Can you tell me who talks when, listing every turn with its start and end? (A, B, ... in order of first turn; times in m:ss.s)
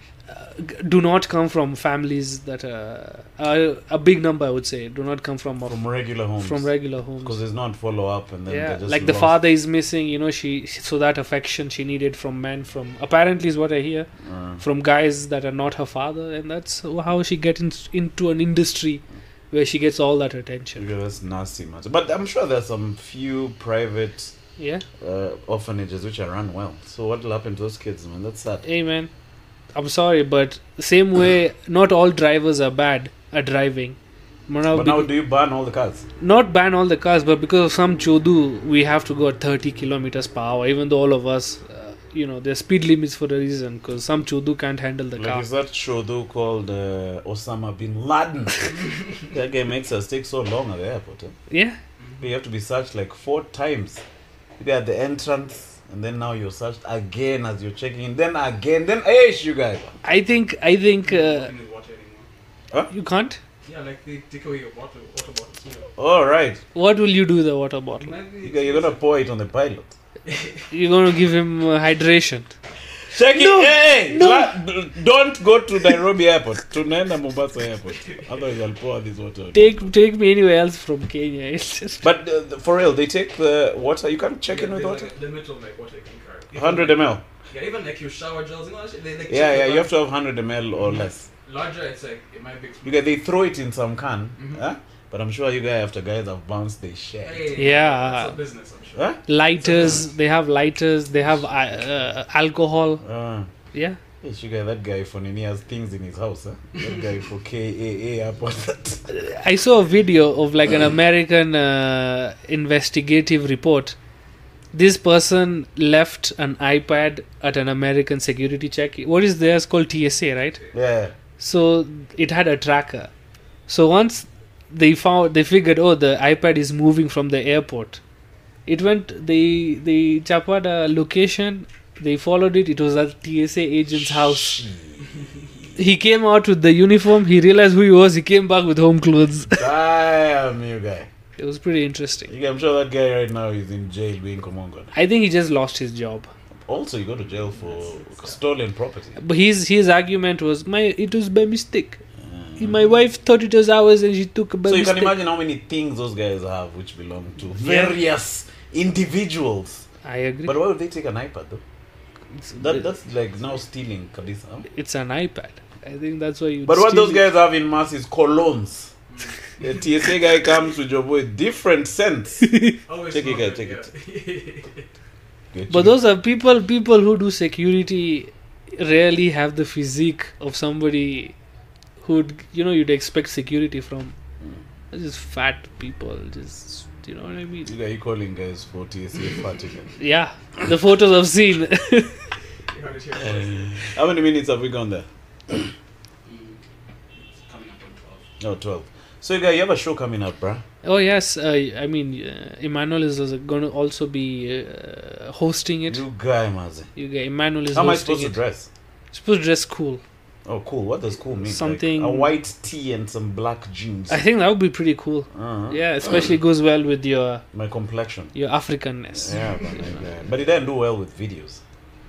0:00.3-0:05.8 A
0:05.6-0:06.7 B
0:06.4-0:07.4 A
0:07.2-0:09.4 B
0:08.5-0:14.1 A
0:14.2-0:14.6 B
0:14.6-0:20.8 A
0:20.8-0:24.3 B
0:24.6-0:24.8 A
0:25.0-0:28.6 B
0:28.6-0:29.1 A
0:29.7-0:34.0 A
0:34.5-0:35.1 A
0:34.7-0:36.0 B
0:36.2-0:45.5 A
0:45.2-0:51.3 B
0:51.5-0:51.8 A
0:52.0-0:52.3 C
0:52.2-0:54.0 B
0:54.6-0:59.9 B
1:00.0-1:01.5 A
1:01.0-1:02.3 C
1:02.9-1:03.4 A
1:03.6-1:05.9 C
1:06.0-1:06.6 B
1:06.7-1:08.1 A
1:08.0-1:09.0 C
1:08.4-1:09.9 B
1:10.2-1:10.7 C
1:10.7-1:12.5 A
1:13.1-1:19.9 B
1:13.2-1:14.5 A
1:18.0-1:18.4 C
1:19.5-1:22.1 A
1:22.0-1:25.1 B
1:24.5-1:29.9 C
1:26.5-1:27.2 B
1:29.3-1:31.3 B
1:30.9-1:33.2 C
1:32.8-1:37.5 B
1:34.4-1:34.6 C
1:37.2-1:40.0 C
1:37.6-1:38.4 A
1:38.9-1:39.2 B
1:39.3-1:43.0 A
1:43.0-1:43.5 B
1:43.7-1:44.0 A
1:44.2-1:49.1 B
1:49.1-1:54.0 A
1:54.7-2:00.6 A
2:00.7-2:01.1 B
2:01.4-2:03.1 A
2:03.7-2:08.0 A
2:08.7-2:14.6 A
2:14.0-2:15.7 B
2:15.8-2:19.7 A
2:19.5-2:21.1 B
2:21.4-2:22.3 A
2:22.3-2:24.9 B
2:24.9-2:26.3 A
2:26.7-2:29.2 B
2:27.5-2:28.4 C
2:29.2-2:32.0 A
2:32.2-2:32.8 B
2:32.6-2:35.2 A
2:34.6-2:39.8 B
2:37.6-2:38.0 A
2:40.0-2:40.6 A
2:40.4-2:41.6 B
2:42.4-2:42.8 A
2:42.6-2:44.7 B
2:44.7-2:47.2 A
2:46.6-2:48.9 B
2:49.1-2:49.8 C
2:49.6-2:52.5 B
2:52.4-2:52.8 A
2:52.8-2:54.9 C
2:53.1-2:53.9 B
2:55.5-2:56.0 B
2:55.7-3:01.3 A
3:02.0-3:04.1 A
3:04.9-3:07.7 A
3:07.6-3:09.9 B
3:10.0-3:12.3 A
3:12.7-3:13.9 C
3:13.2-3:15.7 B
3:16.2-3:16.6 C
3:17.1-3:18.3 C
3:18.4-3:20.6 B
3:20.8-3:26.0 A
3:25.9-3:26.9 B
3:27.0-3:28.4 A
3:27.7-3:28.7 B
3:29.1-3:30.0 A
3:30.4-3:34.2 B
3:31.4-3:32.3 A
3:34.1-3:37.4 A
3:35.3-3:35.8 B
3:37.5-3:38.3 B
3:38.3-3:39.8 A
3:39.1-3:41.6 B